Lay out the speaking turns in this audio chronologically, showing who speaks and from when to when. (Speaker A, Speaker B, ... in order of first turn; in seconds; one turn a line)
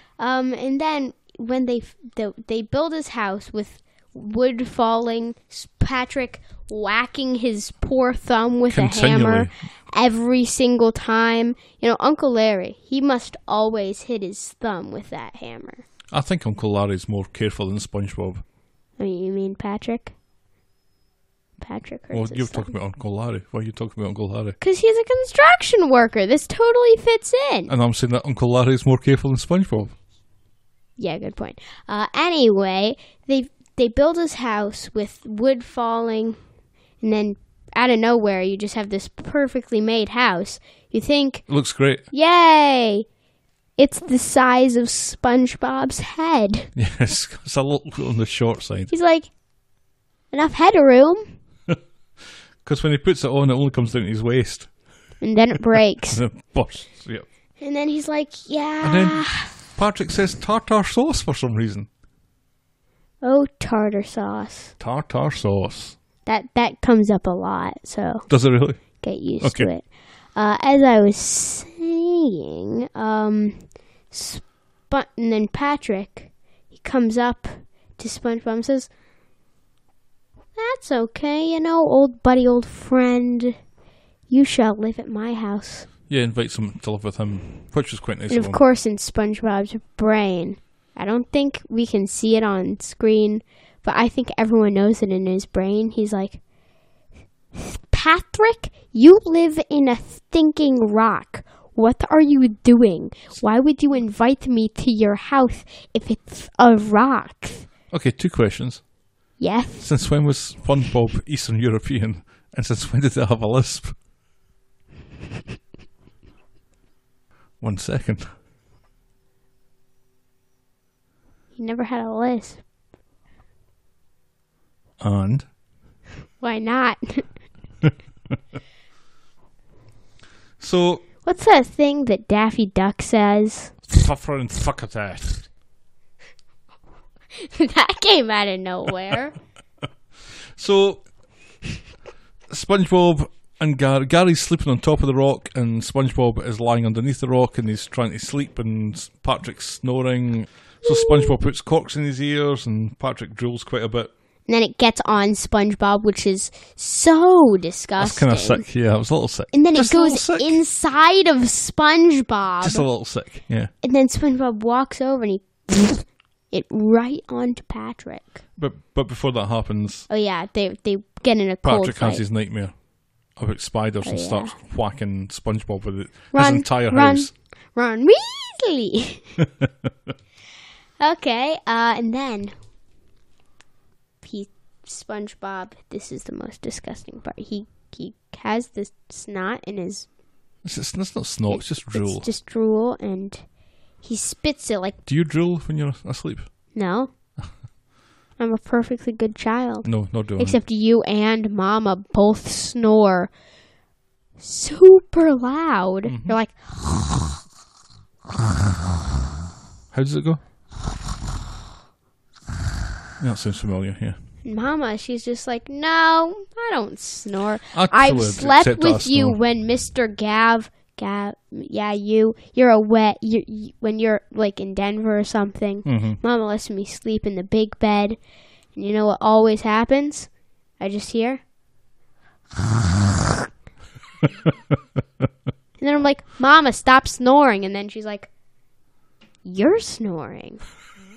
Speaker A: 0.2-15.8
Speaker B: 8.7-9.5
Speaker B: 16.1-18.4
Speaker A: 19.0-20.1
Speaker A: 21.6-22.7
Speaker B: 22.1-24.6
Speaker A: 24.6-27.7
Speaker B: 27.7-29.9
Speaker A: 31.0-36.4
Speaker A: 37.0-41.4
Speaker B: 41.5-42.0
Speaker A: 42.1-43.0
Speaker A: 43.8-46.7
Speaker B: 46.8-48.9
Speaker A: 48.9-49.3
Speaker A: 50.3-51.3
Speaker B: 52.6-54.7
Speaker A: 55.2-56.2
Speaker B: 56.1-57.2
Speaker A: 57.6-59.6
Speaker B: 58.8-61.9
Speaker A: 63.2-64.7
Speaker B: 64.8-66.0
Speaker A: 66.3-68.3
Speaker B: 68.3-68.8
Speaker A: 69.0-69.8
Speaker B: 69.4-69.7
Speaker A: 70.4-73.6
Speaker A: 74.1-78.9
Speaker A: 80.6-83.6
Speaker A: 84.3-85.9
Speaker B: 86.1-88.6
Speaker A: 88.3-96.4
Speaker A: 97.5-107.7
Speaker B: 107.9-108.8
Speaker A: 109.4-109.9
Speaker B: 109.8-113.9
Speaker B: 117.6-118.2
Speaker A: 121.6-122.6
Speaker B: 125.0-125.5
Speaker A: 126.4-127.2
Speaker B: 130.6-131.0
Speaker A: 131.3-133.8
Speaker B: 133.9-135.5
Speaker A: 137.3-139.3
Speaker B: 140.6-141.0
Speaker B: 142.5-154.1
Speaker A: 150.9-151.3
Speaker A: 154.5-158.6
Speaker B: 158.0-160.6
Speaker A: 159.5-162.9
Speaker B: 162.6-163.7
Speaker A: 163.8-168.4
Speaker B: 168.6-170.1
Speaker A: 170.1-172.2
Speaker B: 171.6-172.7
Speaker B: 173.4-177.3
Speaker A: 174.0-174.6
Speaker A: 176.3-179.3
Speaker B: 179.4-179.9
Speaker A: 181.0-182.5
Speaker A: 184.2-190.1
Speaker B: 190.6-192.3
Speaker A: 191.5-193.4
Speaker A: 194.0-195.0
Speaker B: 195.1-196.5
Speaker A: 196.7-197.1
Speaker A: 198.4-203.3
Speaker B: 199.8-200.6
Speaker A: 204.4-206.8
Speaker B: 206.1-206.4
Speaker B: 209.9-210.4
Speaker B: 213.2-214.2
Speaker A: 214.4-228.2
Speaker B: 217.7-219.4
Speaker B: 225.8-226.2
Speaker A: 228.8-230.3
Speaker A: 230.8-231.4
Speaker B: 234.5-235.0
Speaker A: 235.8-238.3
Speaker A: 239.4-240.6